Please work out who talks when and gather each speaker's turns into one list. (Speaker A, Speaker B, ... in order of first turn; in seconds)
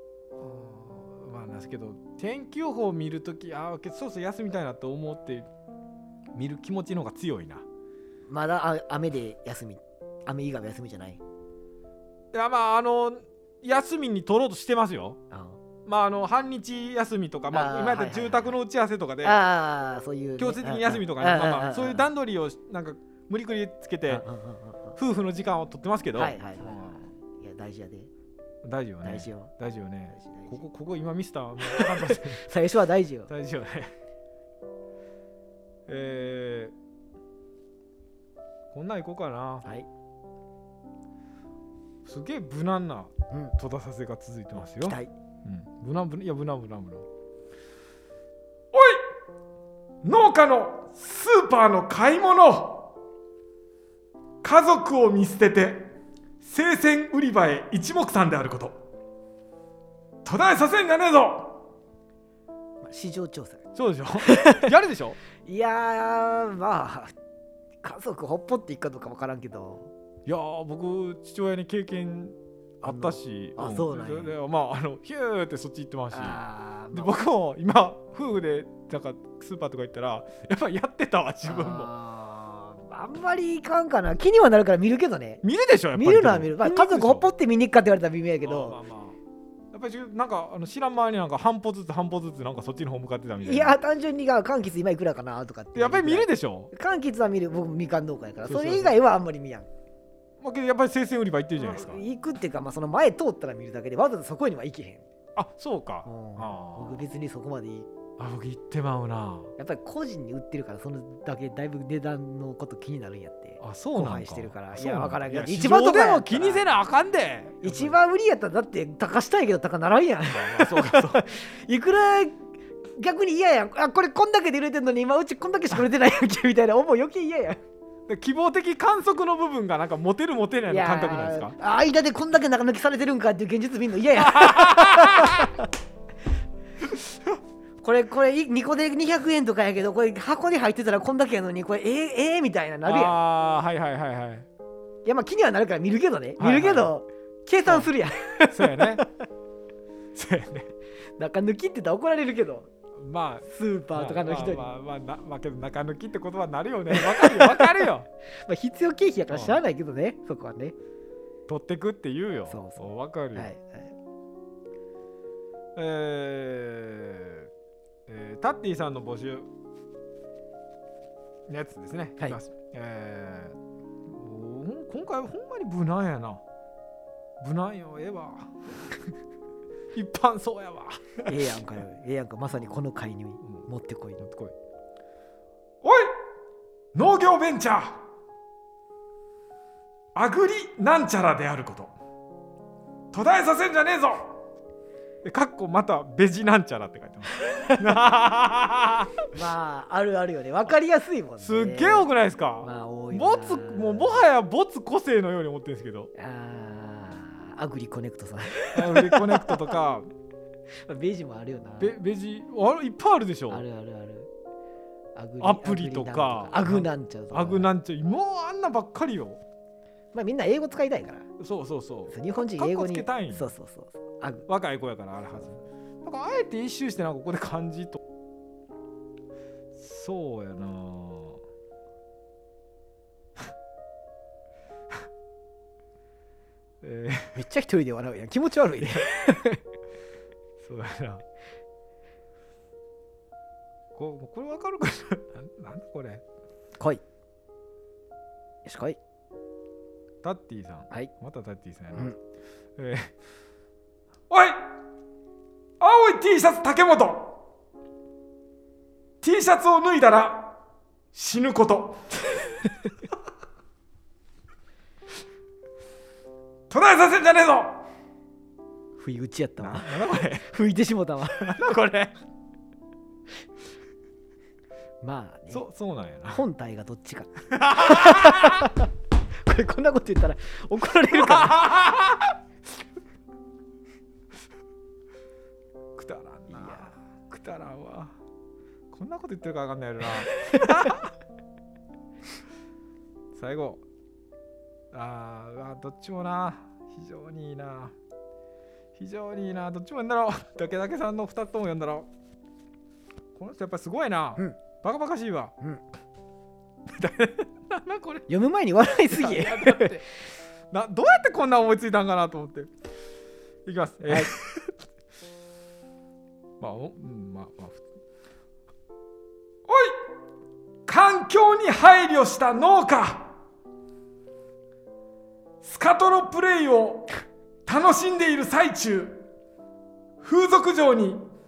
Speaker A: 0.4-5.5, 6.3-7.6, 12.3-15.2, 15.8-19.4, 20.4-24.2, 24.9-27.1, 28.6-32.4, 33.3-33.9, 35.9-36.7, 38.7-39.6, 42.0-47.0, 48.7-49.0, 50.0-52.9, 54.4-58.7, 60.2-61.6, 63.7-65.2, 70.2-76.4, 76.9-81.9, 85.4-87.3, 88.4-89.2, 89.7-93.8, 95.7-96.7, 98.4-99.0, 100.4-102.0, 105.3-107.0, 108.2-109.5, 113.6-118.0, 120.3-121.2, 128.1-131.6, 134.2-135.5, 142.8-144.5, 146.4-146.9, 148.5-149.1, 150.1-150.7, 152.9-158.1, 159.3-159.6, 161.5-163.5, 165.8-167.5, 168.1-169.5, 171.5-176.4, 177.4-178.6, 179.9-181.3, 184.2-184.5, 185.8-186.1, 186.9-188.0, 190.1-191.9, 193.1-194.4, 195.2-199.2, 201.4-206.1, 208.7-210.1, 211.8-213.6, 215.4-219.4, 221.4-223.5, 224.5-228.0, 229.7-231.4, 236.8-237.4, 240.6-241.2, 243.9-246.2, 250.2-252.1, 252.8-253.1, 254.3-254.6, 255.8-257.4, 259.2-260.6, 261.1-262.2, 266.7-267.8, 269.6-270.5, 271.3-272.1, 275.5-276.4, 277.5-278.7, 281.1-282.3, 285.9-288.1, 288.9-291.1, 293.3-293.8, 294.9-297.9, 298.9-302.1, 303.3-305.5, 306.9-308.3, 309.1-310.1, 310.7-312.7, 313.6-314.7, 316.6-317.8, 319.7-319.9, 320.9-323.3, 325.6-327.1, 327.6-329.2, 330.2-331.2
Speaker B: 8.3-11.2, 15.3-15.6, 17.5-18.6, 19.2-22.0, 24.1-24.9, 26.1-28.1, 29.0-29.5, 30.1-30.6, 31.6-33.3, 43.3-43.5, 44.8-45.1, 62.8-63.6, 64.2-64.7, 65.4-67.1, 67.8-69.9, 72.8-74.3, 76.1-77.1, 81.4-85.4, 85.9-88.8, 93.4-99.7, 101.6-105.0, 106.0-107.9, 109.6-116.6, 117.6-122.4, 123.0-127.6, 130.7-135.7, 137.8-143.2, 145.0-149.1, 151.2-152.7, 153.5-154.7, 156.9-160.8, 162.5-163.9, 181.2-184.2, 199.3-202.1, 202.6-204.2, 206.1-209.7, 210.8-211.9, 213.5-214.3, 215.1-217.7, 220.1-221.2, 222.1-224.4, 237.3-239.6, 246.8-247.0, 248.6-249.0, 269.0-271.5, 275.0-275.6, 276.3-281.6, 286.5-286.9, 290.5-290.9, 308.3-310.0